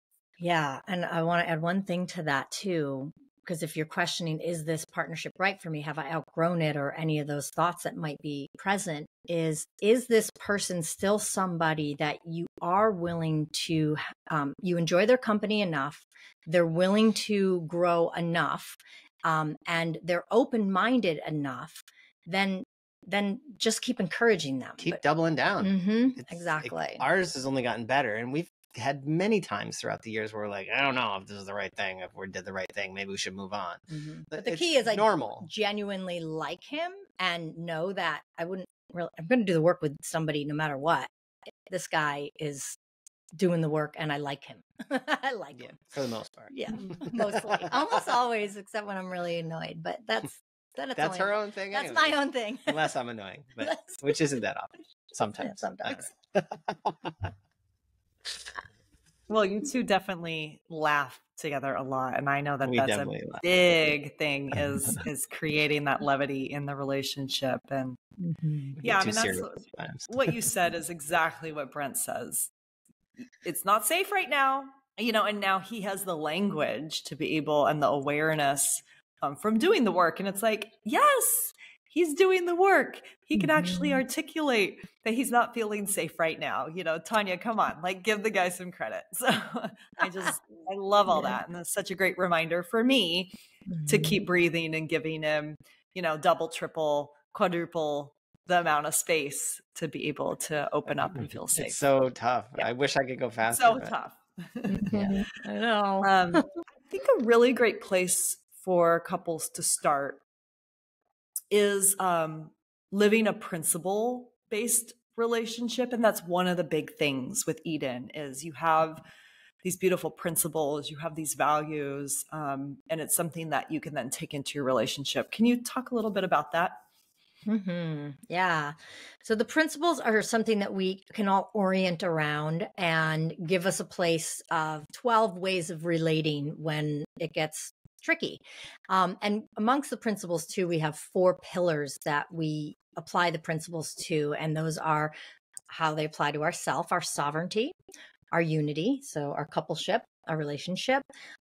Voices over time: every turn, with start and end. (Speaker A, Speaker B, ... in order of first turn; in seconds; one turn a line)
Speaker A: 0.4-25.0
Speaker B: 24.8-35.5
Speaker A: 25.6-27.0
Speaker A: 33.9-41.1
Speaker A: 41.7-42.8
Speaker A: 43.4-45.8
Speaker B: 45.5-48.1
Speaker A: 46.5-52.9
Speaker B: 51.0-57.3
Speaker A: 53.6-54.1
Speaker A: 55.4-56.1
Speaker C: 59.3-68.0
Speaker B: 62.6-63.4
Speaker A: 68.2-68.8
Speaker B: 68.8-70.3
Speaker C: 68.8-72.5
Speaker C: 73.4-93.3
Speaker A: 83.4-84.0
Speaker A: 91.1-91.4
Speaker A: 93.7-94.2
Speaker C: 93.9-101.8
Speaker B: 101.1-103.9
Speaker C: 103.5-104.9
Speaker A: 104.7-106.5
Speaker C: 106.0-110.2
Speaker C: 111.5-119.0
Speaker C: 119.6-126.8
Speaker A: 127.5-145.1
Speaker A: 145.7-147.8
Speaker A: 148.3-151.1